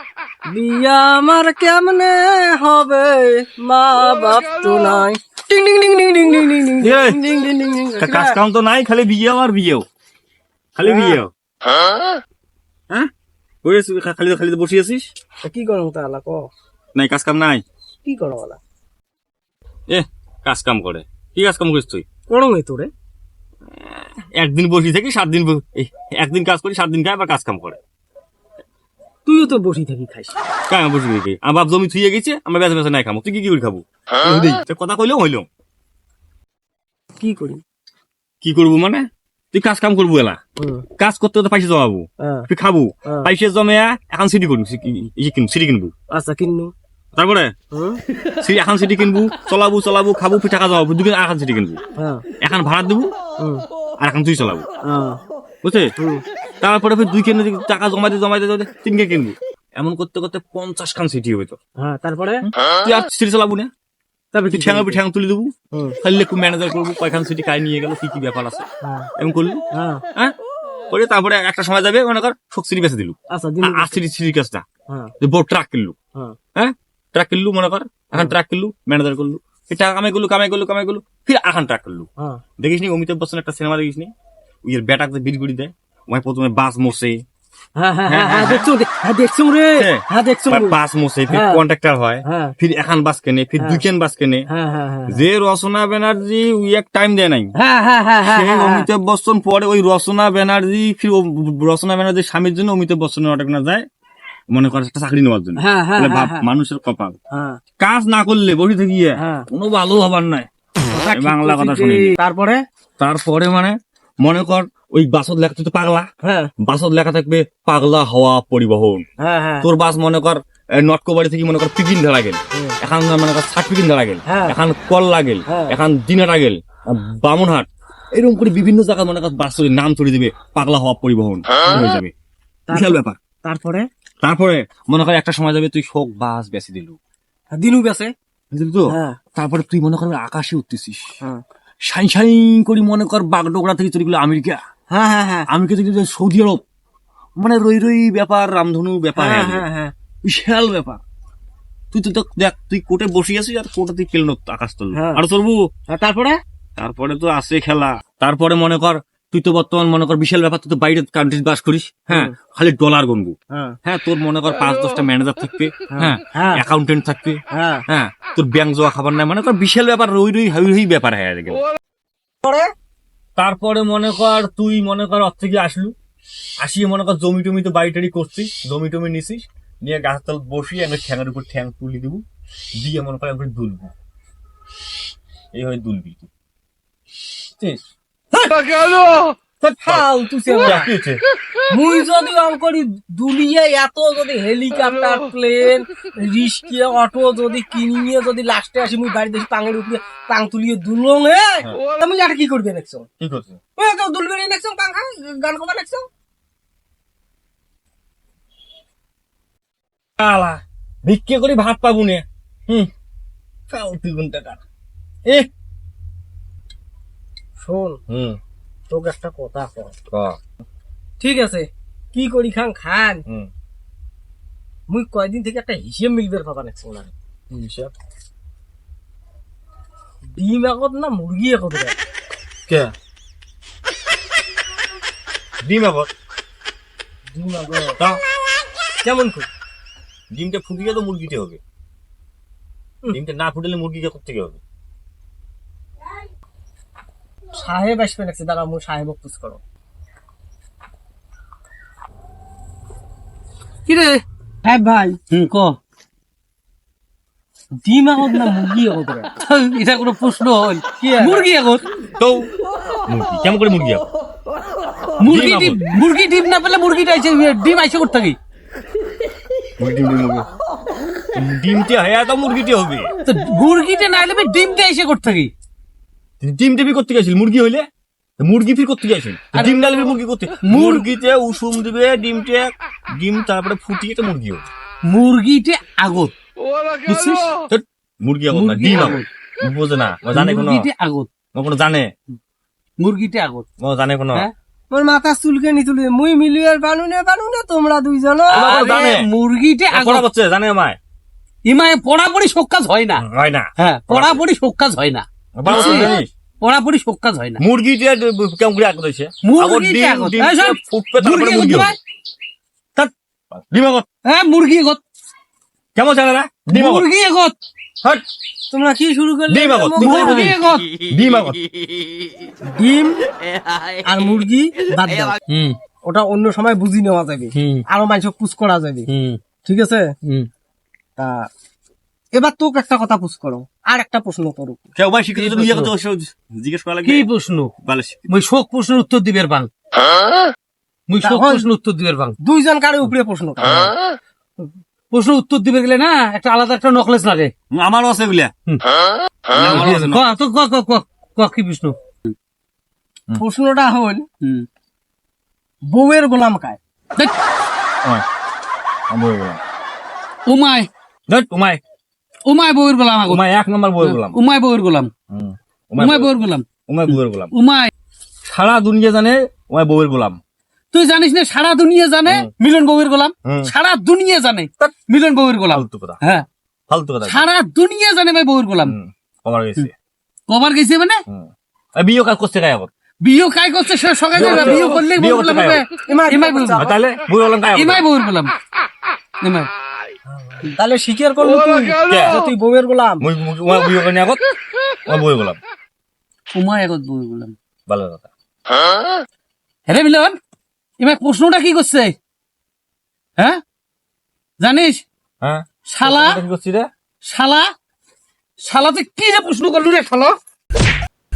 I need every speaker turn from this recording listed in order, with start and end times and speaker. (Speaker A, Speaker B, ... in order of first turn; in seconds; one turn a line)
Speaker A: 0.5-8.4
Speaker B: 6.8-7.2
Speaker B: 8.0-9.8
Speaker B: 10.8-11.3
Speaker A: 10.8-11.2
Speaker B: 13.6-15.1
Speaker A: 15.4-16.5
Speaker B: 16.9-17.6
Speaker A: 18.0-18.6
Speaker B: 19.9-22.1
Speaker A: 22.3-22.9
Speaker B: 23.8-27.8
Speaker A: 29.3-30.4
Speaker B: 30.7-35.5
Speaker A: 37.2-37.6
Speaker B: 38.4-40.4
Speaker A: 40.6-40.9
Speaker B: 41.0-45.9
Speaker A: 42.2-42.5
Speaker A: 43.0-43.3
Speaker A: 46.1-46.7
Speaker B: 47.2-47.5
Speaker A: 47.7-48.0
Speaker B: 48.4-51.8
Speaker A: 52.0-52.2
Speaker B: 52.4-53.1
Speaker A: 53.4-53.6
Speaker B: 54.0-54.7
Speaker A: 54.9-55.2
Speaker B: 55.6-55.9
Speaker A: 56.0-56.2
Speaker B: 56.6-61.6
Speaker A: 61.8-62.5
Speaker B: 62.5-63.7
Speaker A: 64.3-65.0
Speaker B: 64.5-68.6
Speaker A: 65.7-66.0
Speaker A: 68.8-69.1
Speaker B: 69.2-69.6
Speaker A: 69.7-70.0
Speaker B: 70.9-74.7
Speaker A: 73.3-74.0
Speaker B: 75.2-76.0
Speaker B: 76.5-82.1
Speaker B: 82.6-84.1
Speaker B: 84.7-87.2
Speaker A: 87.8-91.6
Speaker B: 88.1-88.7
Speaker B: 89.8-94.5
Speaker A: 92.2-92.6
Speaker A: 93.6-93.8
Speaker A: 94.5-95.2
Speaker B: 95.1-97.5
Speaker A: 97.6-98.9
Speaker B: 98.2-103.8
Speaker B: 104.5-107.2
Speaker A: 105.6-106.5
Speaker A: 107.3-107.6
Speaker B: 107.8-110.5
Speaker A: 109.2-109.5
Speaker A: 111.0-112.6
Speaker B: 111.1-112.2
Speaker B: 113.0-116.1
Speaker A: 116.2-116.5
Speaker B: 116.6-119.0
Speaker A: 119.2-119.7
Speaker B: 119.6-132.1
Speaker A: 124.3-124.6
Speaker A: 125.5-125.8
Speaker A: 131.7-132.0
Speaker A: 132.7-133.9
Speaker B: 132.7-133.2
Speaker B: 134.2-137.0
Speaker A: 137.5-138.1
Speaker B: 138.5-141.0
Speaker A: 138.9-139.2
Speaker B: 141.9-144.6
Speaker A: 144.9-145.5
Speaker B: 145.5-146.6
Speaker B: 147.4-149.7
Speaker A: 149.2-149.9
Speaker B: 150.2-151.0
Speaker B: 151.9-155.6
Speaker A: 154.9-155.2
Speaker A: 155.9-156.4
Speaker B: 156.8-171.7
Speaker A: 162.1-162.3
Speaker A: 163.5-163.8
Speaker A: 165.9-166.6
Speaker A: 167.5-167.9
Speaker A: 172.4-172.7
Speaker B: 173.4-175.9
Speaker B: 176.6-182.2
Speaker B: 182.8-183.9
Speaker B: 185.5-186.3
Speaker A: 189.6-190.9
Speaker B: 190.6-191.2
Speaker A: 191.7-203.1
Speaker B: 203.2-203.6
Speaker A: 203.8-206.1
Speaker B: 210.2-212.9
Speaker B: 213.7-214.6
Speaker A: 217.6-218.0
Speaker B: 218.1-218.4
Speaker A: 218.9-219.9
Speaker B: 220.1-220.4
Speaker A: 221.2-223.2
Speaker A: 224.9-227.1
Speaker B: 227.5-227.9
Speaker A: 230.3-232.0
Speaker B: 232.7-232.9
Speaker B: 235.6-236.1
Speaker A: 237.3-238.0
Speaker A: 239.0-239.5
Speaker B: 240.3-241.6
Speaker B: 243.1-244.6
Speaker A: 247.6-249.6
Speaker C: 253.9-255.8
Speaker A: 257.8-259.3
Speaker C: 259.4-261.9
Speaker A: 261.0-261.5
Speaker B: 262.2-262.5
Speaker B: 263.1-264.1
Speaker C: 265.2-268.4
Speaker B: 265.3-265.8
Speaker B: 269.8-270.5
Speaker B: 271.3-273.1
Speaker C: 273.2-275.5
Speaker B: 276.4-277.9
Speaker B: 278.4-284.6
Speaker C: 280.6-281.1
Speaker C: 285.1-286.3
Speaker C: 287.1-287.6
Speaker B: 287.7-290.9
Speaker C: 288.5-289.3
Speaker C: 290.3-291.3
Speaker B: 291.5-292.1
Speaker C: 293.0-293.6
Speaker B: 293.8-294.5
Speaker A: 294.9-299.0
Speaker B: 298.5-299.3
Speaker C: 298.5-300.3
Speaker B: 299.9-301.0
Speaker C: 301.6-303.2
Speaker B: 303.2-304.4
Speaker C: 303.8-307.6
Speaker B: 305.6-306.3
Speaker A: 305.7-306.0
Speaker B: 307.6-311.9
Speaker C: 309.4-312.0
Speaker B: 313.6-314.1
Speaker C: 314.2-315.0
Speaker B: 315.9-317.1
Speaker C: 316.7-317.6
Speaker A: 318.7-320.5
Speaker B: 319.5-321.6
Speaker C: 320.0-320.9
Speaker A: 322.7-323.2
Speaker A: 324.0-325.4
Speaker C: 325.5-325.8
Speaker A: 326.1-329.1
Speaker C: 327.6-327.8
Speaker C: 329.1-329.4
Speaker A: 329.6-330.1
Speaker C: 330.2-330.5
Speaker A: 331.2-331.5
Speaker A: 332.3-334.8
Speaker B: 335.0-337.3
Speaker C: 335.4-335.9
Speaker C: 337.1-337.7
Speaker B: 337.8-338.3
Speaker C: 338.3-339.7
Speaker C: 341.1-342.4
Speaker A: 341.2-341.7
Speaker A: 342.4-344.0
Speaker C: 345.1-347.5
Speaker B: 347.7-348.5
Speaker B: 349.5-350.3
Speaker C: 349.5-352.3
Speaker A: 353.4-354.3
Speaker A: 355.9-356.8
Speaker B: 359.1-359.6
Speaker C: 360.5-360.9
Speaker B: 361.3-361.8
Speaker C: 362.5-363.4
Speaker B: 363.3-364.4
Speaker C: 364.0-365.1
Speaker B: 365.3-366.3
Speaker C: 366.0-367.9
Speaker B: 366.9-367.5
Speaker B: 368.4-370.4
Speaker C: 370.9-376.5
Speaker B: 372.2-372.5
Speaker B: 373.4-373.7
Speaker B: 375.7-376.2
Speaker B: 376.9-377.4
Speaker C: 377.3-379.0
Speaker B: 378.8-379.9
Speaker C: 380.5-381.2
Speaker B: 381.3-382.9
Speaker C: 383.2-386.9
Speaker B: 384.3-385.8
Speaker A: 386.0-386.9
Speaker B: 386.8-388.1
Speaker C: 387.7-388.5
Speaker C: 389.4-389.7
Speaker A: 390.6-393.3
Speaker B: 392.1-392.4
Speaker B: 393.2-394.4
Speaker B: 395.1-395.6
Speaker C: 396.5-397.6
Speaker B: 397.9-398.3
Speaker C: 399.9-400.4
Speaker C: 401.0-402.1
Speaker C: 404.6-405.0
Speaker B: 405.4-406.9
Speaker C: 405.9-406.4
Speaker C: 407.2-407.7
Speaker C: 408.6-410.4